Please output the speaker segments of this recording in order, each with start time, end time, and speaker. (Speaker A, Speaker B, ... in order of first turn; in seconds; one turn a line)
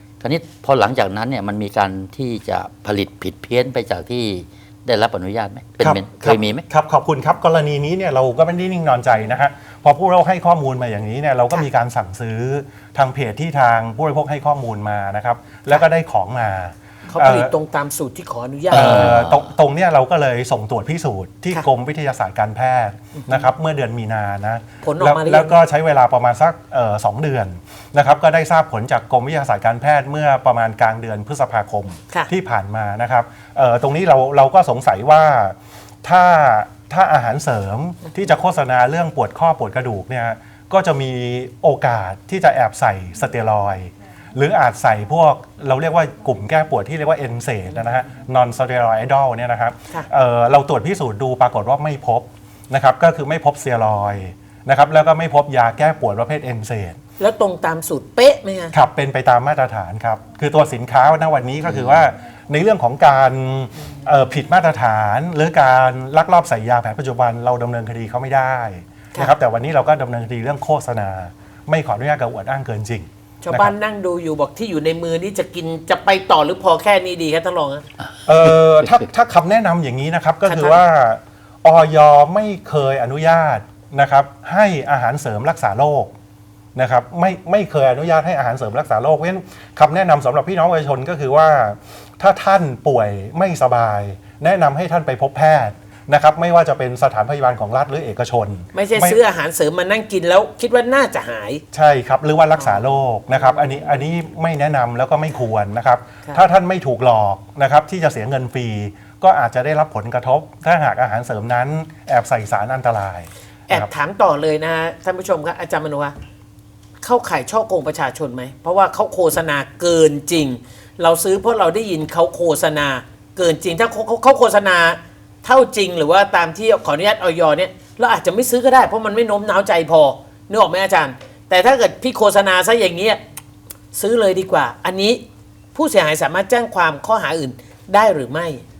Speaker A: 0.2-6.6
Speaker B: 5.8-17.5
Speaker C: 17.1-19.1
Speaker B: 18.7-57.0
Speaker A: 18.7-19.5
Speaker C: 23.2-23.5
Speaker C: 24.8-25.6
Speaker C: 57.2-58.7
Speaker B: 58.7-73.7
Speaker A: 61.6-62.0
Speaker C: 73.4-77.8
Speaker B: 78.2-86.1
Speaker C: 80.5-80.8
Speaker B: 86.7-99.2
Speaker C: 98.7-101.6
Speaker B: 101.7-113.9
Speaker C: 102.6-103.8
Speaker C: 113.7-116.1
Speaker C: 117.0-133.2
Speaker C: 133.9-135.2
Speaker C: 135.7-138.6